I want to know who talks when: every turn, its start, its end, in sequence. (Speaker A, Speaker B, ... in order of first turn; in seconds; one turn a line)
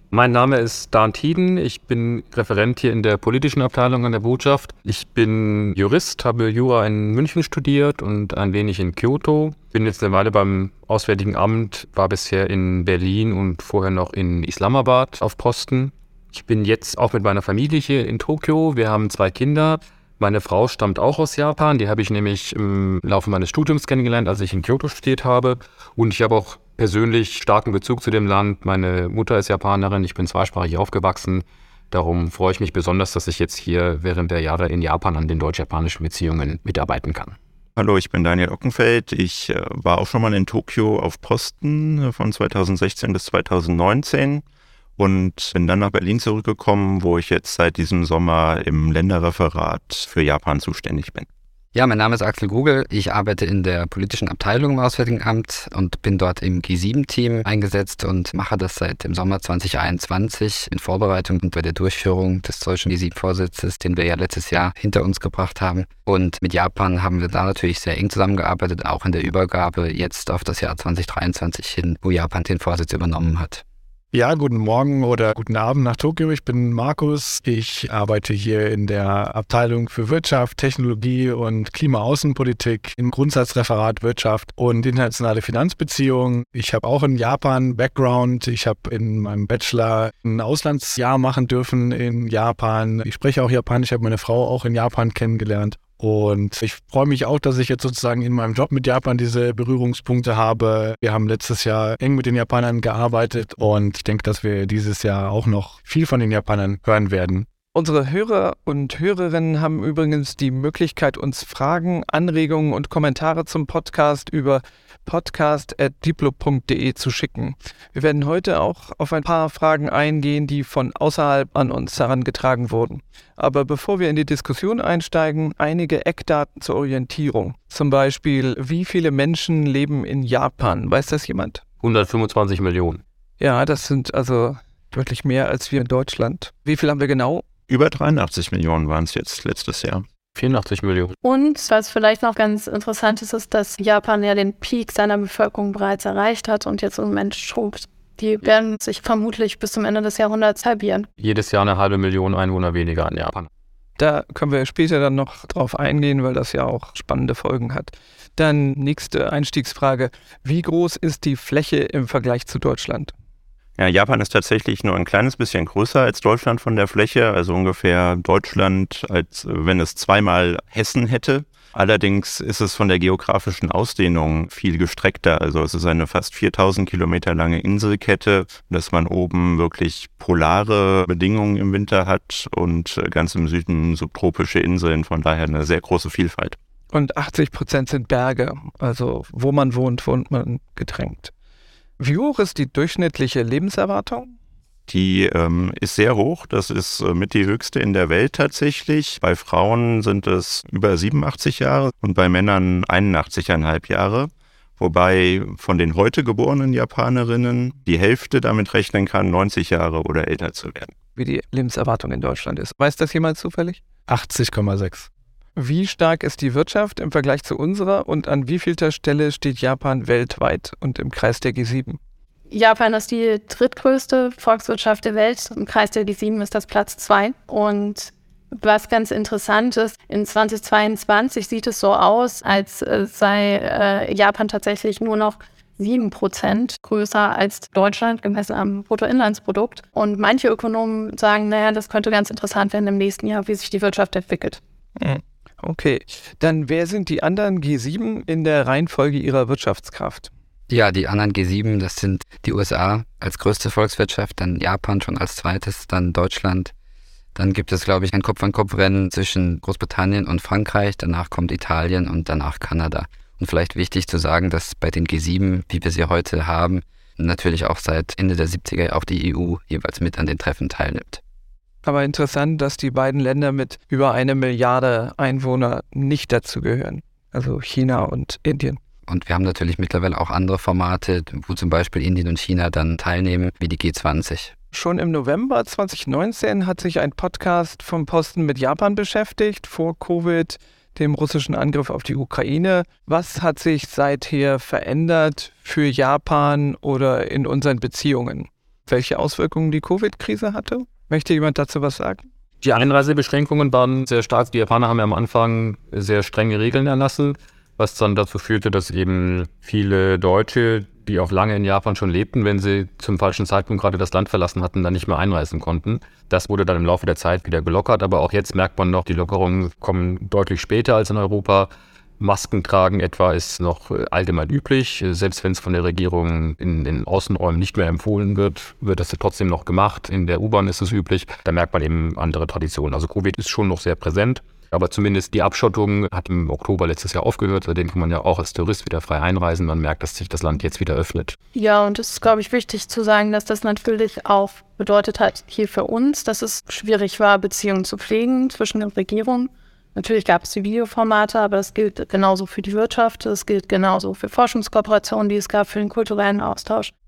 Speaker A: 0.1-37.4
Speaker B: 37.8-44.4
Speaker B: 45.0-51.3
Speaker C: 51.7-73.6
Speaker D: 74.1-107.5
Speaker E: 107.7-131.6
Speaker A: 131.8-133.0
Speaker E: 133.4-137.4
Speaker B: 137.7-140.0
Speaker A: 140.3-141.2
Speaker F: 141.2-151.1
Speaker A: 151.2-153.5
Speaker E: 154.0-163.1
Speaker B: 163.8-186.6
Speaker E: 186.9-191.3
Speaker E: 192.0-194.3
Speaker B: 194.9-210.9
Speaker E: 211.2-213.8
Speaker D: 214.1-215.1
Speaker E: 215.6-222.0
Speaker F: 222.5-244.6
Speaker E: 245.0-250.3
Speaker C: 250.7-256.7
Speaker C: 257.3-271.2
Speaker E: 271.8-278.8
Speaker C: 279.1-284.5
Speaker E: 284.7-302.2
Speaker A: 302.6-321.7
Speaker A: 322.2-341.4
Speaker F: 341.5-356.9